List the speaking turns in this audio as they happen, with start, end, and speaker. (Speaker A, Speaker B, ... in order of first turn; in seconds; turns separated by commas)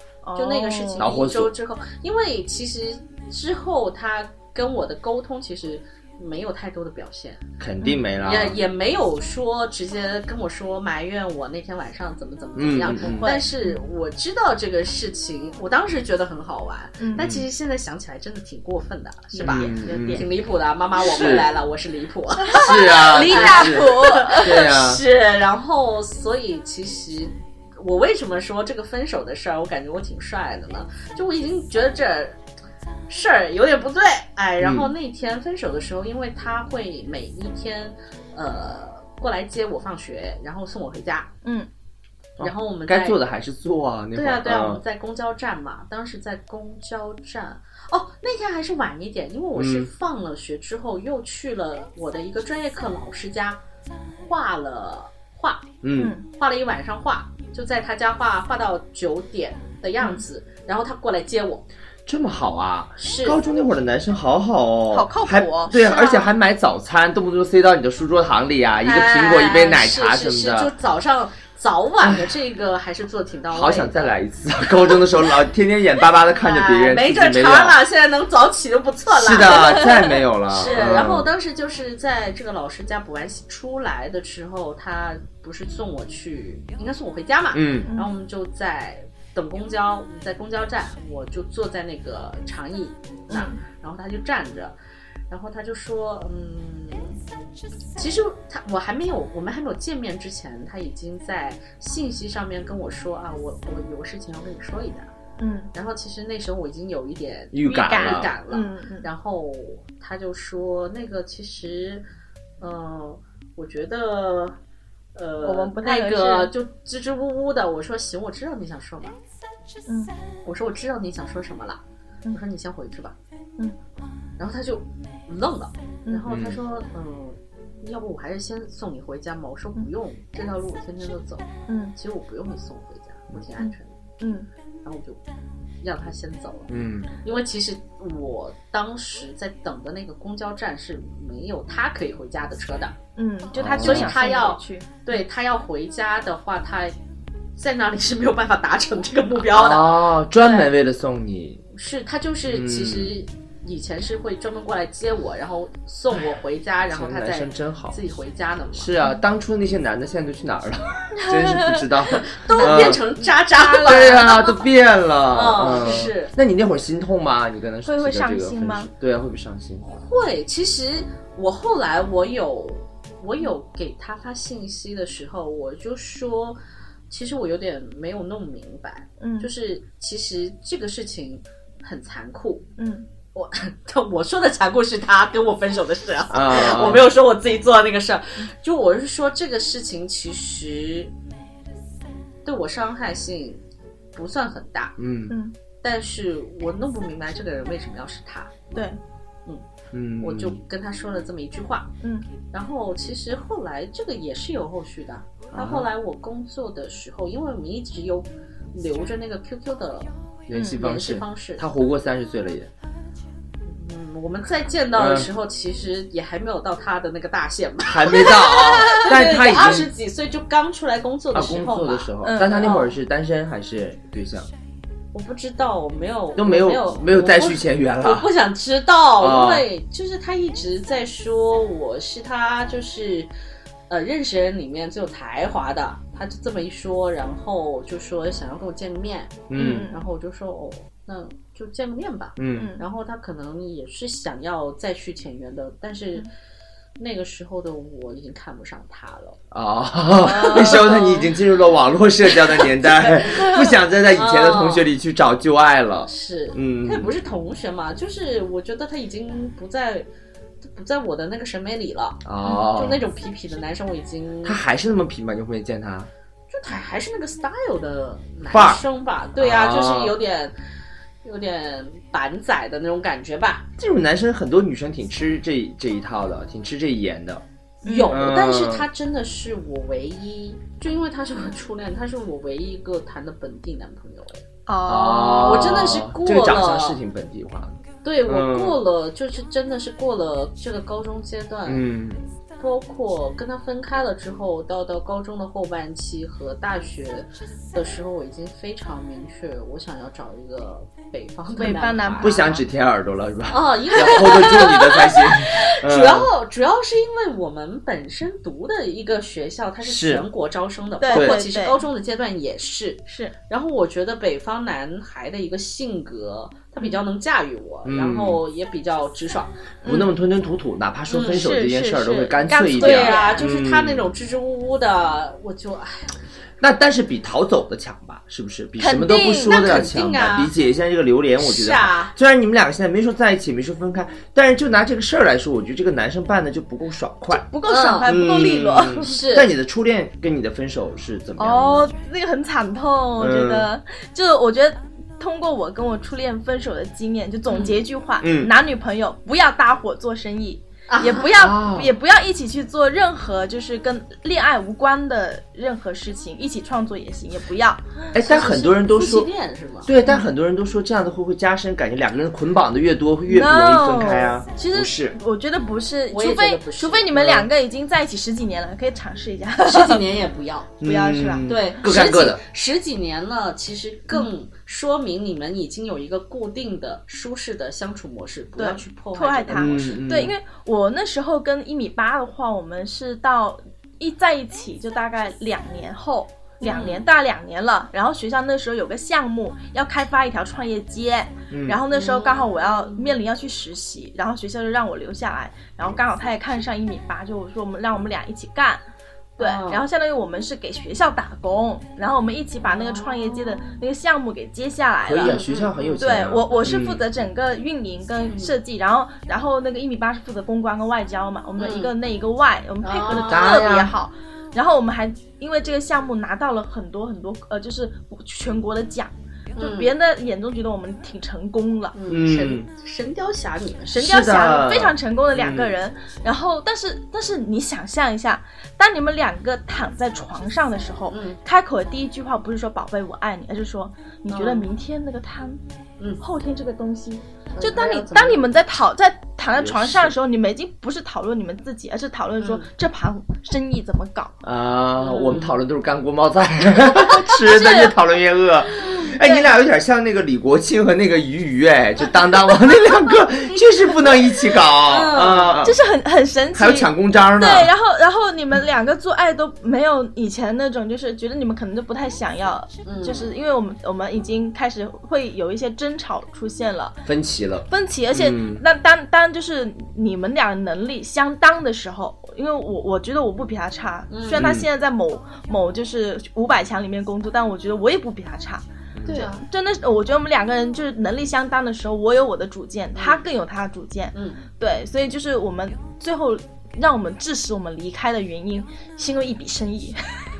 Speaker A: 0.2-1.1, Speaker B: 0.4-7.5, Speaker C: 1.0-1.5, Speaker C: 7.6-8.6, Speaker A: 7.8-8.1, Speaker B: 8.2-32.4, Speaker C: 12.6-13.2, Speaker A: 12.9-13.8, Speaker A: 17.0-17.2, Speaker C: 17.2-17.4, Speaker A: 19.3-20.3, Speaker C: 19.4-20.3, Speaker C: 21.1-21.5, Speaker A: 22.4-24.6, Speaker C: 22.6-25.0, Speaker B: 33.1-41.3, Speaker C: 34.6-34.9, Speaker C: 42.4-44.8, Speaker B: 42.4-43.2, Speaker B: 44.1-53.6, Speaker C: 49.6-49.9, Speaker B: 54.2-55.7, Speaker C: 55.8-56.1, Speaker A: 56.0-56.2, Speaker B: 56.3-61.6, Speaker C: 62.1-70.7, Speaker B: 63.0-63.4, Speaker A: 64.9-66.3, Speaker B: 68.8-74.1, Speaker C: 73.5-77.8, Speaker B: 76.3-94.8, Speaker C: 79.1-81.3, Speaker C: 87.5-87.9, Speaker A: 93.3-93.6, Speaker B: 95.3-97.2, Speaker B: 98.0-105.1, Speaker A: 105.4-105.7, Speaker B: 105.7-112.1, Speaker C: 107.5-108.3, Speaker A: 107.7-109.1, Speaker B: 112.6-114.6, Speaker B: 115.2-119.2, Speaker A: 115.4-116.5, Speaker A: 119.9-120.1, Speaker B: 120.5-123.2, Speaker B: 124.4-133.9, Speaker C: 126.3-126.6, Speaker A: 131.7-131.9, Speaker A: 133.6-134.5, Speaker B: 134.8-135.2, Speaker B: 135.8-143.0, Speaker C: 136.7-137.1, Speaker A: 143.2-144.9, Speaker C: 143.6-144.2, Speaker B: 143.7-146.9, Speaker B: 147.6-150.7, Speaker C: 149.5-151.6, Speaker B: 151.7-158.9, Speaker C: 152.5-153.1, Speaker C: 156.9-158.0, Speaker C: 158.8-163.0, Speaker A: 161.2-161.8, Speaker B: 162.1-164.5, Speaker A: 162.5-164.6, Speaker C: 163.8-169.8, Speaker B: 165.3-166.3, Speaker A: 167.8-168.9, Speaker B: 169.8-176.6, Speaker B: 177.1-182.7, Speaker A: 179.2-179.5, Speaker A: 182.8-183.1, Speaker B: 183.3-191.1, Speaker C: 186.3-187.1, Speaker B: 192.4-193.6, Speaker B: 194.1-195.0, Speaker C: 195.0-195.3, Speaker A: 195.3-195.5, Speaker B: 195.8-198.6, Speaker A: 198.7-199.0, Speaker C: 199.9-200.6, Speaker B: 200.2-201.9, Speaker B: 202.5-210.1, Speaker C: 205.5-205.9, Speaker C: 210.5-212.7, Speaker A: 210.5-210.8, Speaker B: 210.6-211.7, Speaker B: 213.7-222.9, Speaker C: 214.9-215.3, Speaker C: 217.8-219.9, Speaker A: 218.5-219.0, Speaker C: 221.3-224.5, Speaker A: 222.2-222.7, Speaker B: 225.1-233.3, Speaker C: 226.4-228.3, Speaker C: 229.2-229.7, Speaker B: 233.9-246.3, Speaker C: 239.5-239.9, Speaker A: 239.6-240.0, Speaker C: 242.4-242.7, Speaker A: 242.5-242.8, Speaker B: 247.0-249.4, Speaker C: 249.5-257.1, Speaker A: 250.2-251.0, Speaker B: 250.3-251.4, Speaker B: 252.5-254.9, Speaker B: 256.1-260.1, Speaker B: 260.6-264.6, Speaker C: 262.2-263.0, Speaker C: 264.4-266.1, Speaker B: 266.5-270.5, Speaker C: 268.5-268.8, Speaker C: 269.4-270.2, Speaker B: 271.2-273.7, Speaker C: 273.8-277.4, Speaker A: 277.8-278.2, Speaker B: 277.8-284.4, Speaker C: 278.1-278.9, Speaker A: 284.7-285.8, Speaker C: 284.9-287.8, Speaker B: 285.3-287.0, Speaker B: 288.0-291.9, Speaker C: 288.3-288.8, Speaker C: 291.7-292.2, Speaker B: 292.6-302.4, Speaker A: 301.6-302.6, Speaker C: 302.2-306.3, Speaker B: 303.5-319.5, Speaker C: 309.8-310.2, Speaker A: 311.0-311.8, Speaker C: 311.1-311.4, Speaker A: 313.1-313.3, Speaker C: 317.9-318.4, Speaker A: 319.8-320.1, Speaker C: 319.9-324.1, Speaker B: 321.1-321.5, Speaker A: 321.3-323.4, Speaker B: 322.7-326.1, Speaker C: 326.6-337.4, Speaker A: 328.8-329.5, Speaker B: 329.4-330.5, Speaker B: 331.4-332.1, Speaker A: 337.3-339.2, Speaker B: 337.7-338.2, Speaker C: 338.1-341.9, Speaker B: 339.0-339.5, Speaker A: 341.4-358.1, Speaker C: 343.2-343.7, Speaker B: 347.5-347.8, Speaker C: 348.2-348.5, Speaker B: 350.9-351.3, Speaker C: 351.3-351.9, Speaker C: 358.1-359.3, Speaker B: 358.2-359.9, Speaker C: 359.9-365.2, Speaker A: 363.3-370.0, Speaker B: 366.1-367.1, Speaker C: 367.1-367.5, Speaker B: 369.6-370.8, Speaker C: 370.8-372.4, Speaker A: 370.8-371.5, Speaker B: 371.5-380.0, Speaker A: 378.6-398.8, Speaker C: 379.5-380.4, Speaker B: 386.6-387.1, Speaker C: 391.5-391.8, Speaker B: 391.9-393.2, Speaker B: 399.4-399.9, Speaker A: 399.4-405.4, Speaker B: 402.6-403.8, Speaker C: 405.1-407.0, Speaker B: 405.2-406.1, Speaker A: 406.0-422.0, Speaker B: 408.3-408.6, Speaker B: 411.6-411.9, Speaker B: 412.8-413.8, Speaker C: 413.1-413.9, Speaker B: 419.6-419.9, Speaker B: 421.9-424.1, Speaker C: 422.1-422.7, Speaker A: 423.9-435.6, Speaker C: 424.0-425.7, Speaker B: 431.1-431.4, Speaker B: 434.3-434.7, Speaker A: 436.2-444.3, Speaker B: 437.5-438.5, Speaker C: 439.6-440.1, Speaker B: 442.4-442.7, Speaker C: 444.4-455.8, Speaker B: 445.0-445.6, Speaker A: 446.9-447.9, Speaker A: 449.2-449.5, Speaker B: 453.5-455.7, Speaker A: 455.6-467.0, Speaker C: 456.5-457.7, Speaker B: 462.9-463.3, Speaker C: 467.1-468.6, Speaker A: 467.7-490.0, Speaker B: 474.1-474.5, Speaker C: 474.3-474.7, Speaker C: 478.9-479.3, Speaker B: 479.1-479.4, Speaker B: 483.0-483.2, Speaker B: 484.1-484.4